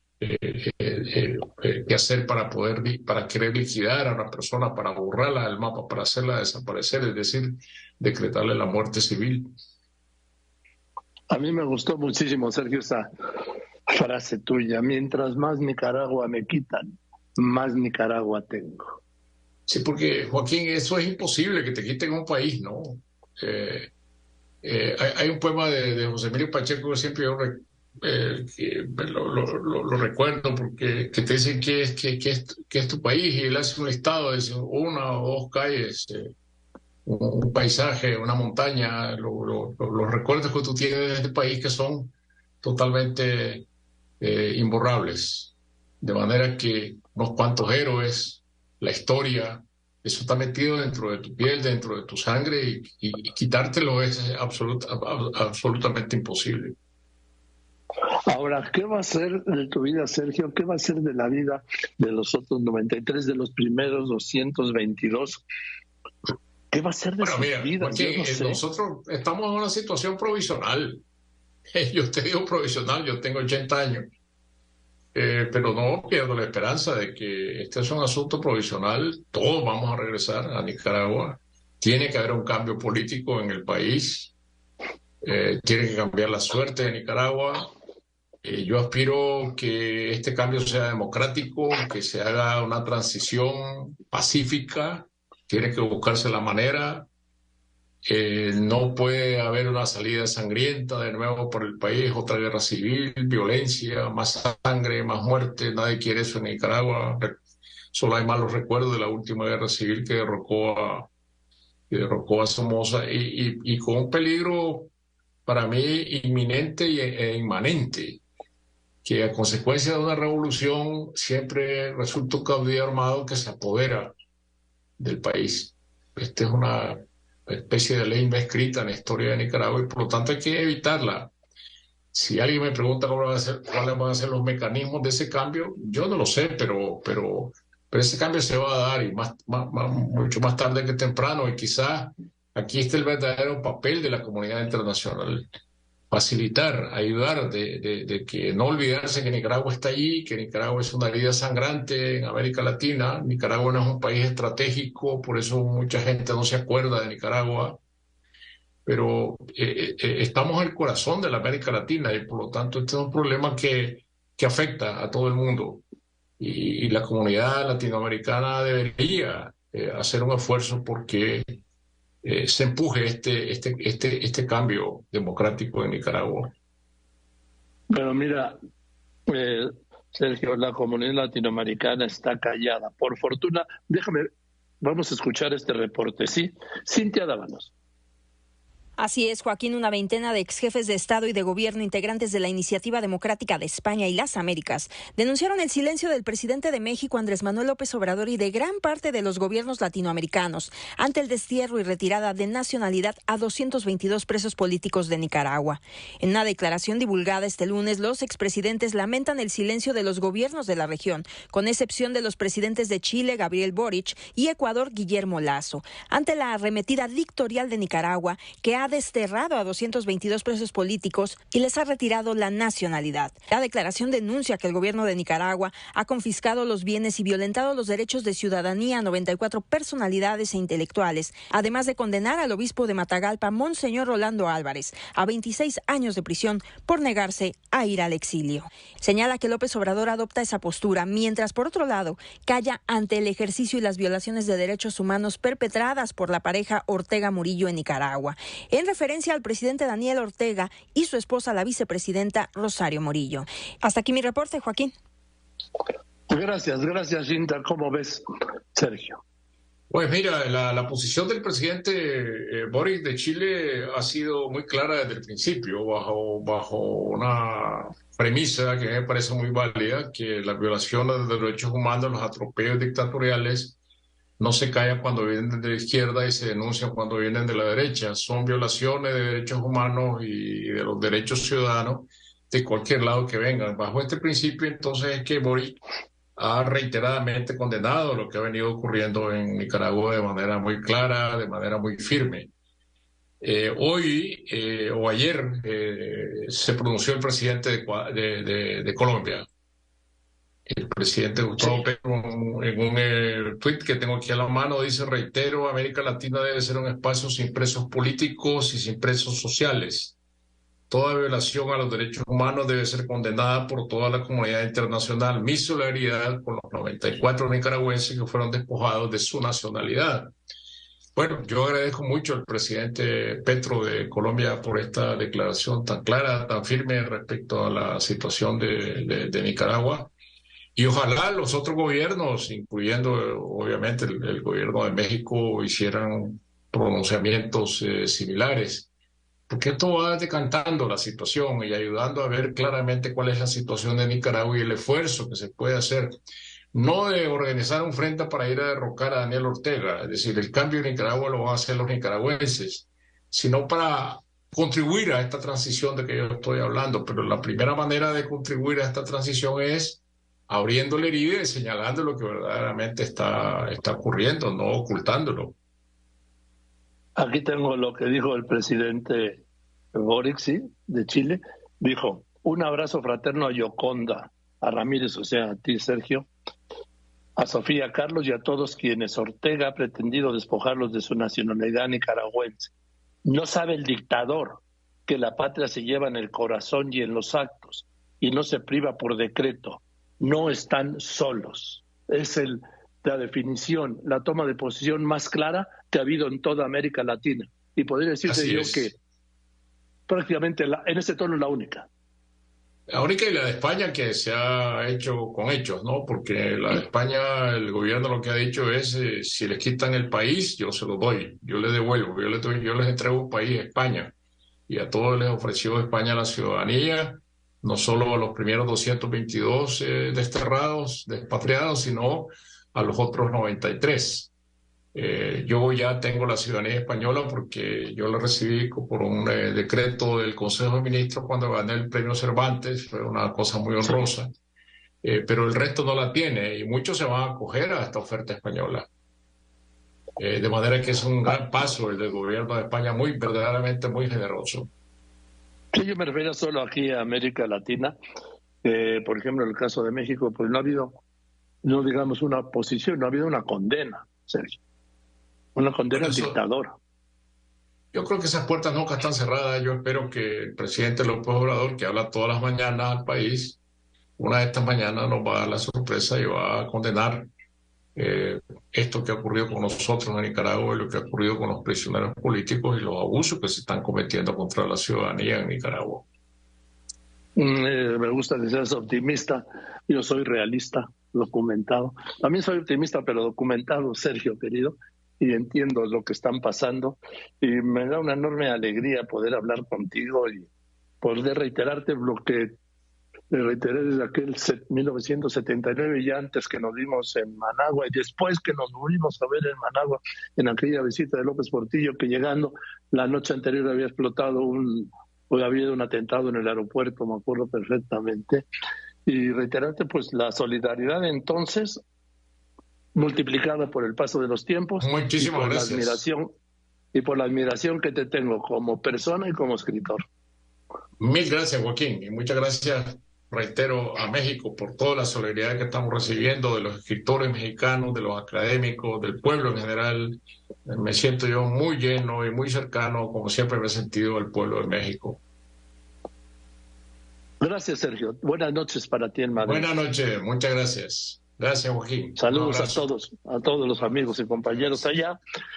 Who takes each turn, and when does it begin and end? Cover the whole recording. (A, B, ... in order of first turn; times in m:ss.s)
0:00.2-0:09.5 A
0:11.3-0:13.1 B
0:13.9-0:19.0 B
0:19.7-0:23.9 A
0:24.6-0:36.3 A
0:37.0-0:43.7 A
0:44.2-0:56.8 A
0:58.3-1:05.4 B
1:06.7-1:08.6 B
1:07.2-1:11.0 A
1:11.7-1:14.0 A
1:15.1-1:24.3 A
1:25.2-1:27.7 A
1:28.4-1:37.1 A
1:38.0-1:47.4 A
1:47.9-1:51.1 A
1:51.9-1:54.9 A
1:55.4-1:58.2 A
1:59.0-2:04.1 A
2:05.0-2:11.3 A
2:12.1-2:25.5 A
2:26.1-2:37.8 A
2:38.8-2:45.8 A
2:46.4-2:51.6 A
2:52.2-2:56.5 A
2:57.9-2:58.6 B
2:59.3-3:04.3 B
3:04.8-3:07.7 B
3:09.0-4:14.9 C
4:16.3-4:19.2 B
4:19.9-4:33.8 A
4:34.4-4:45.8 A
4:46.4-4:52.5 A
4:53.4-4:59.5 A
5:00.6-5:10.2 A
5:10.9-5:20.3 A
5:21.2-5:30.1 A
5:30.7-5:38.9 A
5:39.5-5:46.2 A
5:46.7-6:05.6 A
6:07.2-6:09.4 B
6:09.9-6:16.3 B
6:17.4-6:22.7 B
6:23.2-6:39.0 B
6:38.2-6:38.9 A
6:40.1-6:41.9 B
6:42.9-6:54.1 A
6:54.7-7:04.3 A
7:04.9-7:14.3 A
7:15.0-7:18.9 A
7:20.2-7:24.7 A
7:25.7-7:28.0 B
7:28.6-7:31.0 B
7:31.6-7:34.6 B
7:35.5-7:36.8 B
7:35.9-7:36.4 A
7:37.9-7:43.6 A
7:44.2-7:47.3 A
7:47.9-7:56.0 A
7:57.4-8:10.5 B
8:11.0-8:12.6 B
8:13.3-8:28.4 B
8:29.0-8:31.8 B
8:32.9-8:36.3 B
8:34.8-8:36.0 A
8:36.9-8:40.0 B
8:41.0-8:55.2 A
8:57.4-8:59.7 B
8:59.4-9:02.8 A
9:02.2-9:05.2 B